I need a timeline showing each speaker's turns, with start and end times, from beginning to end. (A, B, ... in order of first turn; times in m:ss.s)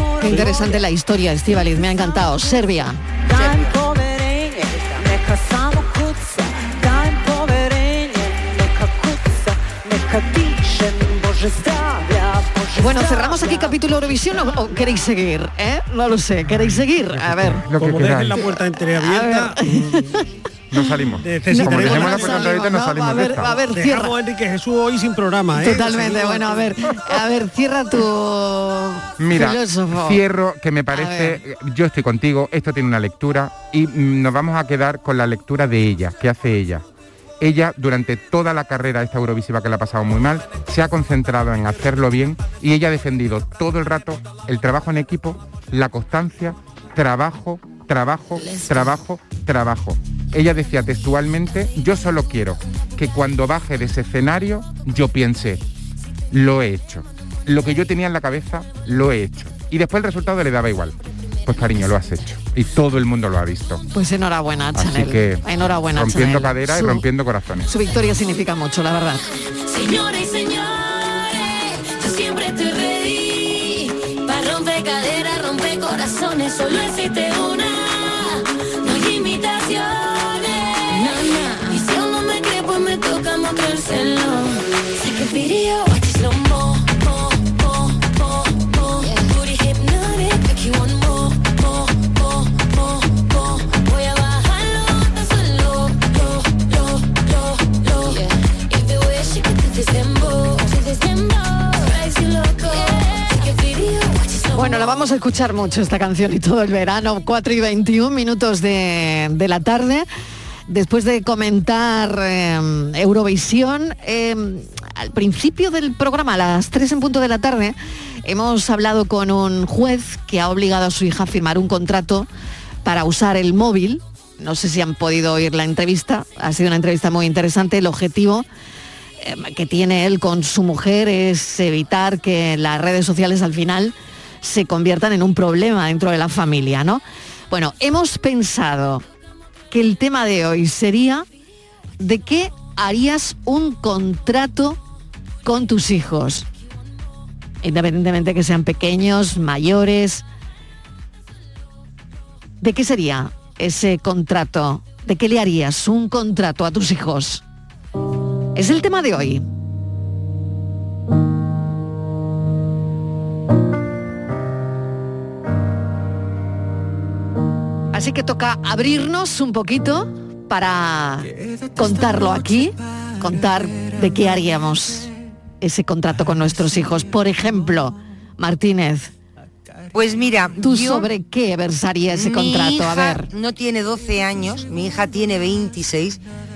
0:00.2-0:03.0 A
0:03.4-0:03.8 B
0:04.7-0:05.0 B
0:11.9-0:13.6 C
0:12.7-0:17.6 A
0:17.4-0:18.4 D
0:17.7-0:20.2 E
0:19.0-0:20.0 A
0:20.7-0:23.5 D
0:21.2-0:22.7 E
0:21.5-0:24.1 A
0:23.6-0:26.8 E
0:25.5-0:30.2 A
0:29.2-0:36.8 D
0:30.9-0:31.4 A
0:37.4-0:55.6 D
0:56.3-1:00.9 D
1:01.4-1:03.8 D
1:03.9-1:07.0 A
1:04.7-1:07.7 D
1:07.7-1:09.2 A
1:09.6-1:45.1 C
1:44.5-1:50.0 A
1:50.7-2:02.3 A
2:02.8-2:08.4 A
2:09.2-2:19.0 A
2:19.7-2:21.2 A
2:22.0-2:24.8 A
2:25.4-2:26.4 A
2:27.6-2:30.2 A
2:32.6-2:37.4 A
2:38.5-2:39.4 A
2:47.9-2:55.1 A
2:55.6-2:59.1 A
2:59.9-3:01.1 B
3:00.6-3:03.3 A
3:02.1-3:06.2 B